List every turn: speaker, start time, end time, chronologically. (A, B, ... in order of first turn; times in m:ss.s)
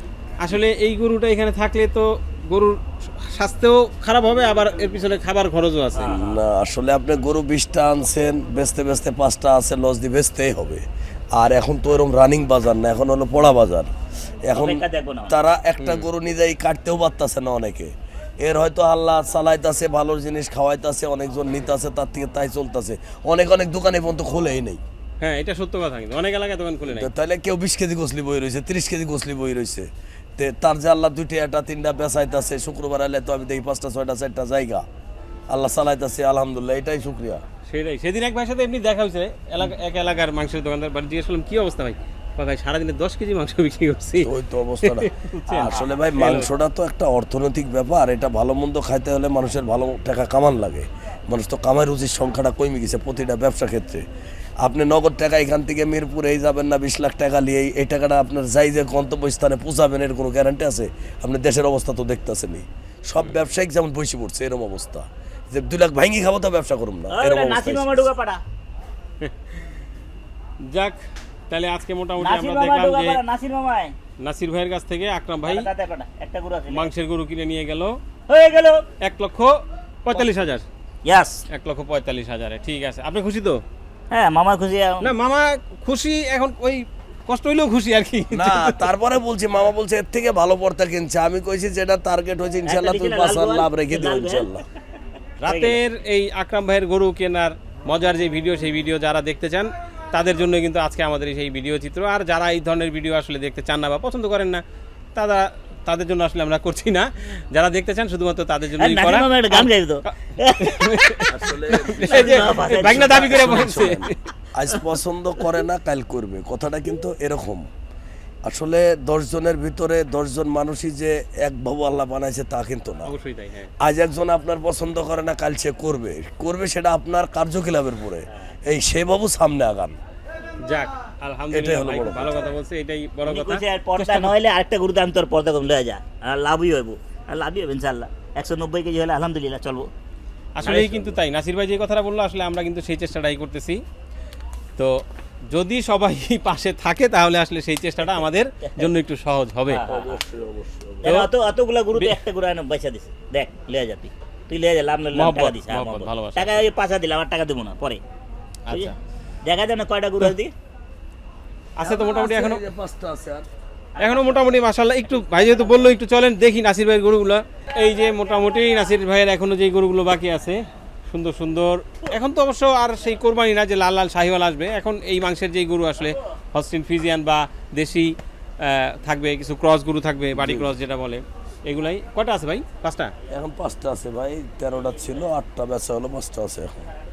0:00.4-0:06.2 A
0:05.9-0:06.3 B
0:06.0-0:10.8 C
0:11.3-0:13.9 C
0:14.4-0:24.8 C
0:14.6-0:15.3 B
0:15.8-0:16.1 A
0:25.2-0:27.1 A
0:26.9-0:34.8 C
0:35.5-0:37.4 C
0:37.7-0:44.3 A
0:44.2-0:54.0 C
0:44.8-0:46.5 A
0:54.6-1:08.1 C
1:07.1-1:08.4 B
1:10.6-1:11.0 A
1:11.5-1:13.2 A
1:12.2-1:13.9 B
1:14.2-1:15.7 A
1:15.4-1:16.9 B
1:16.7-1:18.0 A
1:18.3-1:18.8 B
1:19.0-1:20.6 A
1:21.0-1:21.4 B
1:21.5-1:23.6 A
1:24.1-1:25.1 B
1:25.0-1:28.7 A
1:28.3-1:34.6 C
1:32.6-1:34.5 B
1:35.4-1:44.6 A
1:35.4-1:35.8 B
1:45.1-1:49.7 A
1:48.8-1:50.9 B
1:50.6-1:54.1 A
1:51.3-1:57.7 C
1:52.0-1:53.7 B
1:58.4-2:03.1 C
2:03.1-2:03.7 A
2:03.8-2:10.0 C
2:10.6-2:14.3 A
2:11.5-2:12.5 C
2:13.2-2:19.9 B
2:20.6-2:23.8 A
2:20.6-2:21.1 C
2:20.6-2:21.1 B
2:24.8-2:29.8 A
2:28.6-2:28.9 B
2:29.7-2:30.2 B
2:29.8-2:31.2 C
2:31.0-2:38.0 B
2:35.1-2:36.6 A
2:38.7-2:38.9 A
2:39.4-2:40.5 B
2:41.8-2:42.6 A
2:41.8-2:43.5 C
2:44.0-2:44.4 B
2:44.0-3:03.1 A
3:00.3-3:00.7 C
3:03.3-3:06.9 C